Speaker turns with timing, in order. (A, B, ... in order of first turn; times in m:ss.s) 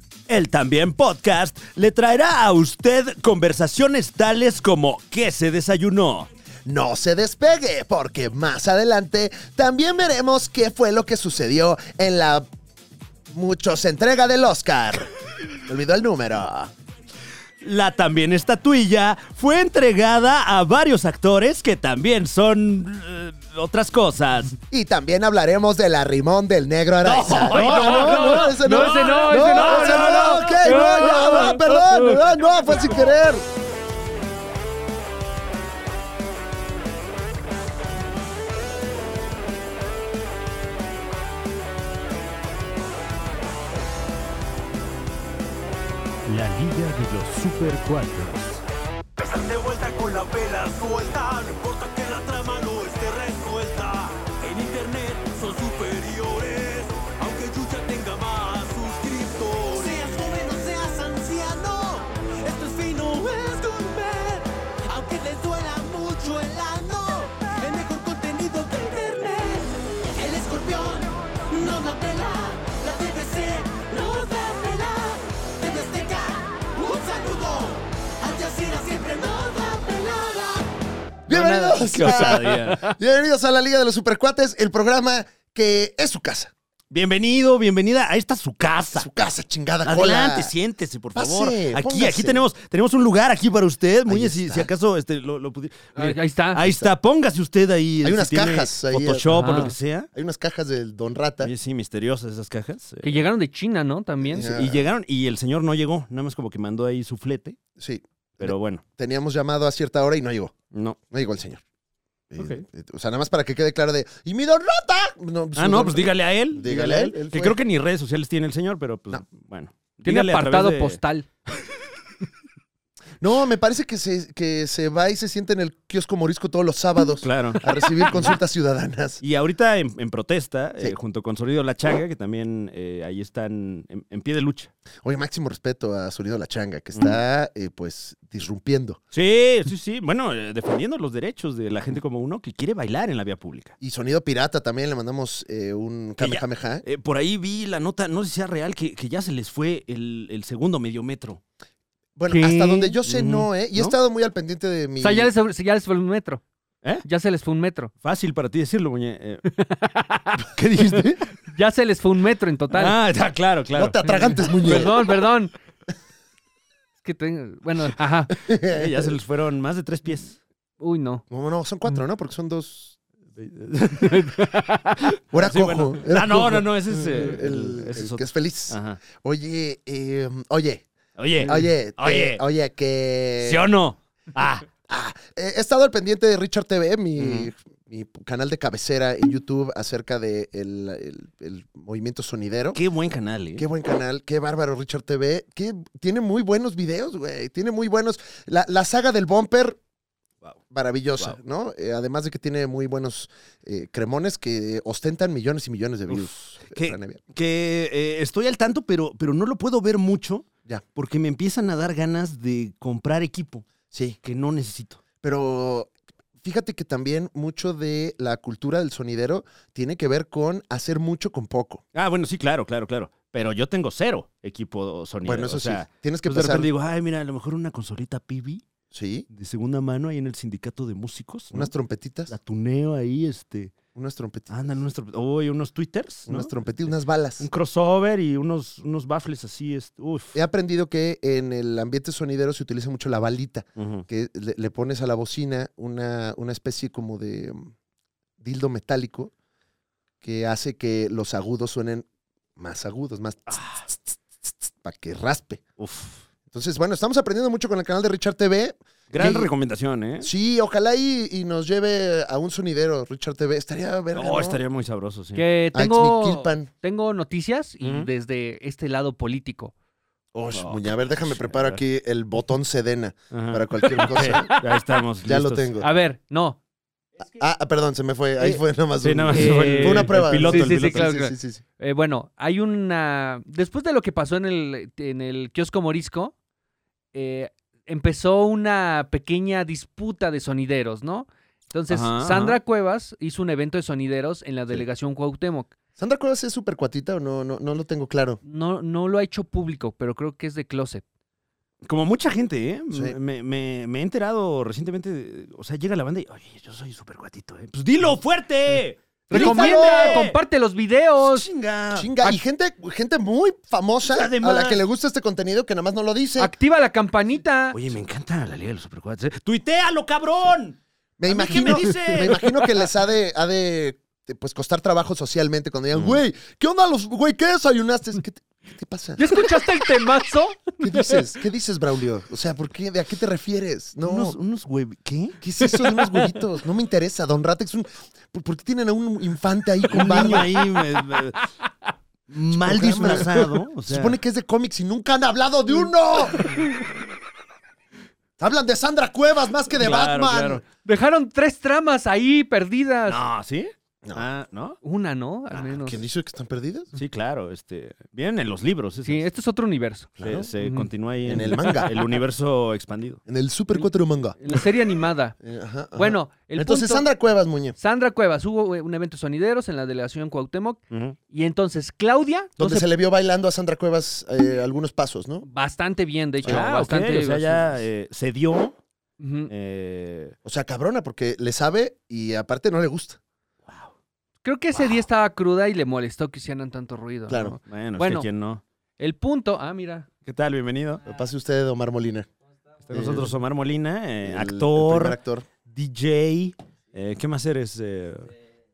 0:00.3-0:06.3 A
0:06.7-0:12.5 B
0:13.3-0:16.7 B
0:17.6-0:24.6 A
0:24.7-0:33.4 B
0:27.0-0:32.3 A
0:27.3-0:31.4 C
0:46.3-0:48.6 A
0:49.2-1:20.7 D
1:21.3-1:26.5 B
1:21.3-1:22.9 A
1:26.9-1:29.1 A
1:29.0-1:30.5 B
1:29.8-1:40.1 A
1:31.2-1:32.4 B
1:34.1-1:34.7 B
1:36.0-1:36.6 C
1:36.6-1:36.9 B
1:38.0-1:41.5 B
1:39.3-1:39.7 C
1:41.4-1:43.2 A
1:43.0-1:44.5 C
1:44.2-1:44.9 B
1:44.4-1:47.6 A
1:47.8-1:50.6 B
1:48.4-1:48.8 A
1:50.7-1:51.0 A
1:51.1-1:51.6 B
1:52.3-1:57.6 B
1:52.4-1:52.6 A
1:55.6-2:01.0 A
2:00.0-2:01.3 C
2:03.2-2:09.2 B
2:07.2-2:08.4 A
2:09.2-2:14.7 A
2:15.0-2:19.0 B
2:17.0-2:17.2 A
2:19.1-2:23.8 A
2:23.8-2:26.8 B
2:26.2-2:31.4 A
2:32.2-2:35.3 B
2:32.3-2:33.0 C
2:33.1-2:34.0 A
2:35.0-2:36.4 C
2:37.0-2:37.9 C
2:38.0-2:39.4 A
2:39.5-2:40.4 C
2:40.5-2:41.3 A
2:41.5-2:43.0 C
2:42.7-2:44.9 A
2:43.7-2:45.1 B
2:44.6-2:45.5 C
2:47.0-2:48.4 C
2:48.4-2:49.2 B
2:48.6-2:50.4 A
2:50.8-2:51.2 C
2:51.3-2:53.0 B
2:53.4-2:54.4 A
2:54.0-2:55.1 C
2:55.3-2:59.0 A
2:55.3-3:00.8 B
3:01.2-3:02.4 A
3:01.4-3:03.6 B
3:03.4-3:04.7 A
3:04.9-3:12.8 B
3:07.2-3:07.5 A
3:12.7-3:13.7 A
3:13.6-3:19.8 B
3:20.7-3:27.2 B
3:26.1-3:33.7 A
3:33.9-3:34.2 B
3:34.2-3:35.0 A
3:35.2-3:41.8 B
3:42.0-3:48.6 A
3:45.2-3:46.7 B
3:48.9-3:49.3 B
3:49.3-3:51.7 A
3:51.5-3:52.3 B
3:52.3-3:53.8 A
3:54.0-3:54.5 B
3:54.5-3:56.6 A
3:56.3-3:57.5 B
3:57.4-4:00.4 A
4:00.3-4:07.7 B
4:03.8-4:04.1 A
4:08.4-4:09.3 B
4:10.2-4:12.1 B
4:12.6-4:15.6 B
4:13.5-4:13.8 A
4:15.8-4:16.2 A
4:16.5-4:19.5 B
4:19.1-4:20.3 A
4:20.2-4:24.6 B
4:24.1-4:25.4 A
4:25.4-4:29.7 C
4:25.7-4:26.7 B
4:27.8-4:28.1 A
4:30.3-4:34.5 B
4:30.5-4:31.8 A
4:33.3-4:35.8 A
4:34.0-4:34.6 C
4:35.2-4:35.9 B
4:35.8-4:36.6 C
4:37.2-4:41.6 B
4:39.0-4:41.1 A
4:39.3-4:46.3 C
4:47.1-4:55.7 C
4:51.9-4:52.6 A
4:56.0-4:58.4 B
4:58.4-5:01.0 C
5:01.8-5:10.4 A
5:09.3-5:11.5 C
5:09.3-5:10.3 B
5:11.2-5:12.1 A
5:11.9-5:16.5 B
5:14.1-5:14.8 A
5:16.4-5:17.8 C
5:17.7-5:22.7 A
5:21.2-5:29.6 B
5:21.8-5:22.2 C
5:26.0-5:26.2 A
5:29.2-5:31.3 C
5:30.8-5:34.4 B
5:34.0-5:35.4 A
5:35.4-5:40.6 B
5:35.9-5:36.3 C
5:39.9-5:41.4 A
5:39.9-5:40.3 C
5:42.3-5:44.2 A
5:42.5-5:46.6 B
5:46.4-5:46.8 C
5:48.4-5:50.6 B
5:49.7-5:50.6 A
5:50.8-5:53.2 C
5:53.0-5:54.8 A
5:54.8-5:56.0 C
5:55.5-5:56.9 B
5:57.0-5:59.3 A
5:59.0-6:00.9 C
6:00.2-6:00.5 B
6:00.2-6:03.2 A
6:01.2-6:01.9 B
6:01.4-6:01.9 C
6:03.3-6:04.4 B
6:04.4-6:05.4 C
6:05.4-6:07.8 B
6:06.0-6:07.1 C
6:07.8-6:12.9 C
6:10.9-6:11.2 A
6:12.6-6:15.5 B
6:15.4-6:17.8 C
6:16.4-6:18.8 A
6:19.2-6:19.5 C
6:19.5-6:20.4 A
6:20.4-6:23.2 B
6:23.7-6:23.9 A
6:24.4-6:28.3 C
6:27.3-6:27.6 B
6:27.7-6:28.6 A
6:29.0-6:30.1 C
6:30.2-6:31.0 A
6:31.0-6:32.3 B
6:32.9-6:38.3 A
6:32.9-6:33.4 B
6:34.2-6:35.5 B